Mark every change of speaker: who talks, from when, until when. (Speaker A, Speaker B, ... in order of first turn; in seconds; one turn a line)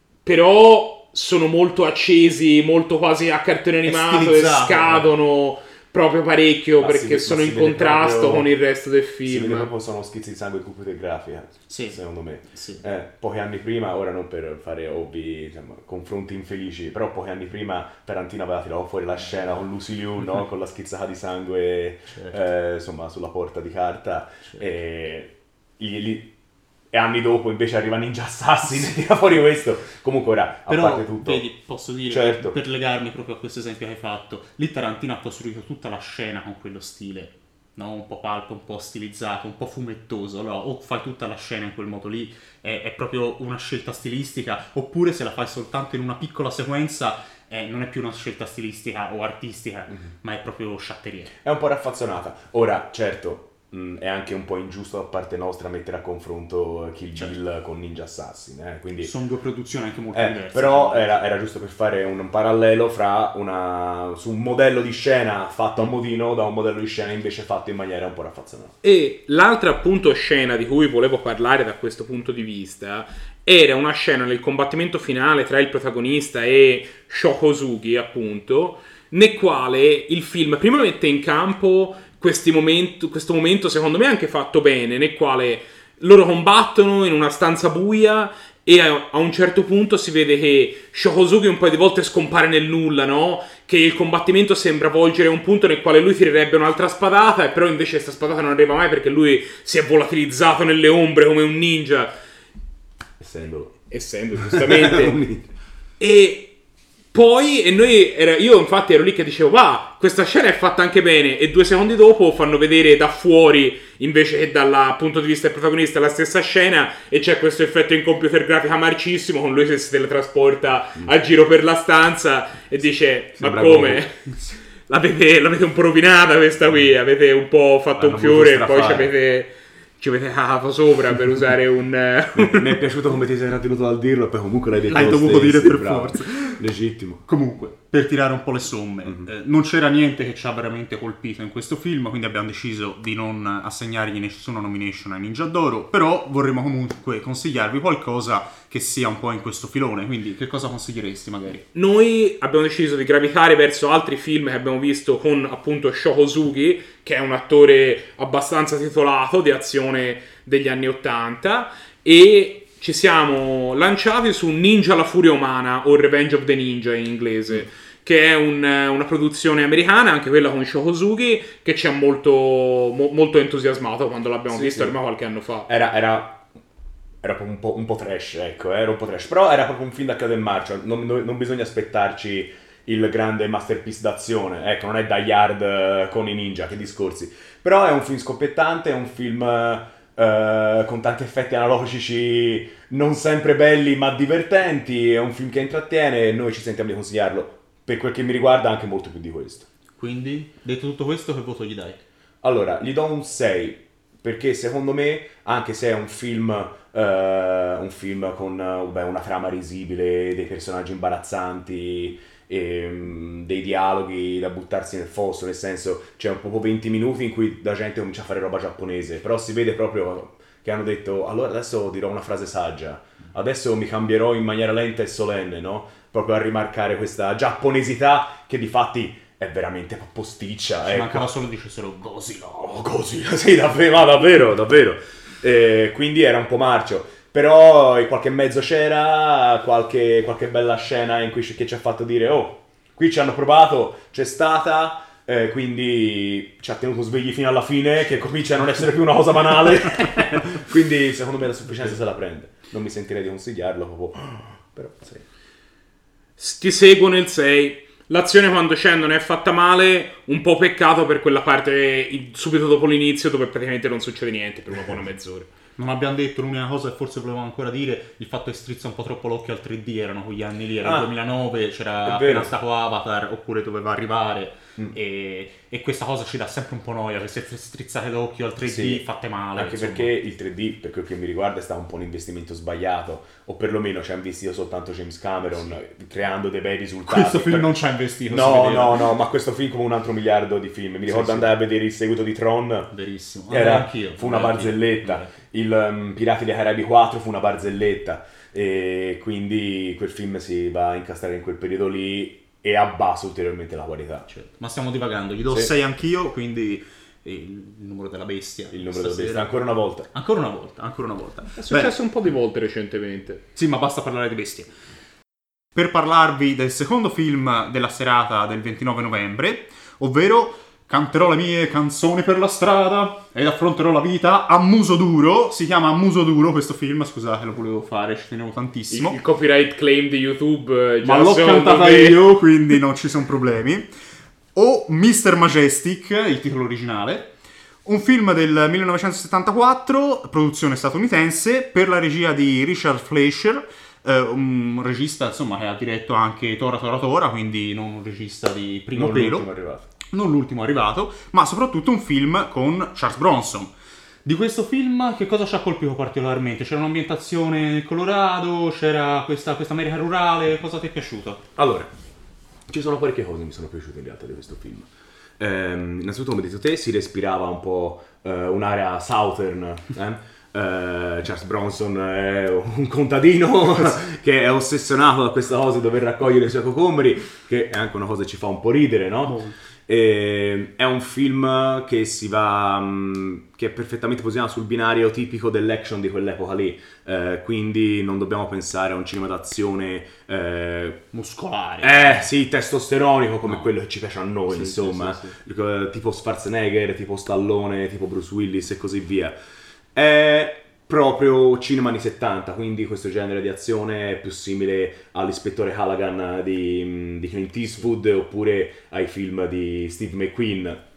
Speaker A: 0.2-9.7
Speaker B: 3.8-5.0
Speaker C: 6.8-8.5
Speaker C: 9.2-26.3
Speaker B: 11.7-12.0
Speaker B: 12.5-12.8
Speaker C: 26.9-31.4
Speaker B: 30.7-51.3
Speaker C: 32.1-32.6
Speaker C: 51.4-59.1
Speaker B: 59.0-61.2
Speaker C: 60.1-68.7
Speaker A: 68.8-102.1
Speaker C: 103.2-103.8
Speaker A: 103.9-105.2
Speaker C: 104.3-105.5
Speaker A: 106.0-106.5
Speaker A: 107.1-124.3
Speaker C: 123.4-124.1
Speaker A: 124.8-132.8
Speaker C: 128.0-129.1
Speaker C: 132.3-137.2
Speaker B: 134.9-136.6
Speaker B: 137.2-151.6
Speaker A: 151.7-175.7
Speaker C: 174.5-174.9
Speaker C: 175.7-176.5
Speaker C: 177.2-199.7
Speaker B: 200.0-202.0
Speaker C: 202.4-231.2
Speaker B: 230.8-232.6
Speaker C: 232.5-255.2
Speaker A: 256.4-265.5
Speaker B: 265.8-280.1
Speaker C: 270.8-271.1
Speaker C: 272.0-272.5
Speaker C: 278.6-279.0
Speaker C: 279.5-287.7
Speaker B: 287.1-289.1
Speaker C: 288.3-292.9
Speaker B: 291.1-291.5
Speaker B: 292.9-295.3
Speaker C: 293.5-304.3
Speaker B: 304.3-309.5
Speaker C: 308.7-310.1
Speaker B: 310.1-311.9
Speaker A: 311.6-313.4
Speaker B: 313.5-314.7
Speaker B: 315.7-329.2
Speaker A: 328.9-332.2
Speaker B: 331.0-333.9
Speaker B: 334.5-337.3
Speaker B: 337.8-349.4
Speaker C: 348.9-349.9
Speaker B: 350.1-353.7
Speaker B: 354.2-361.4
Speaker C: 361.6-361.9
Speaker C: 362.7-364.9
Speaker C: 365.4-391.0
Speaker B: 379.3-379.5
Speaker B: 391.1-392.3
Speaker C: 391.8-399.3
Speaker B: 394.5-395.3
Speaker C: 399.9-410.8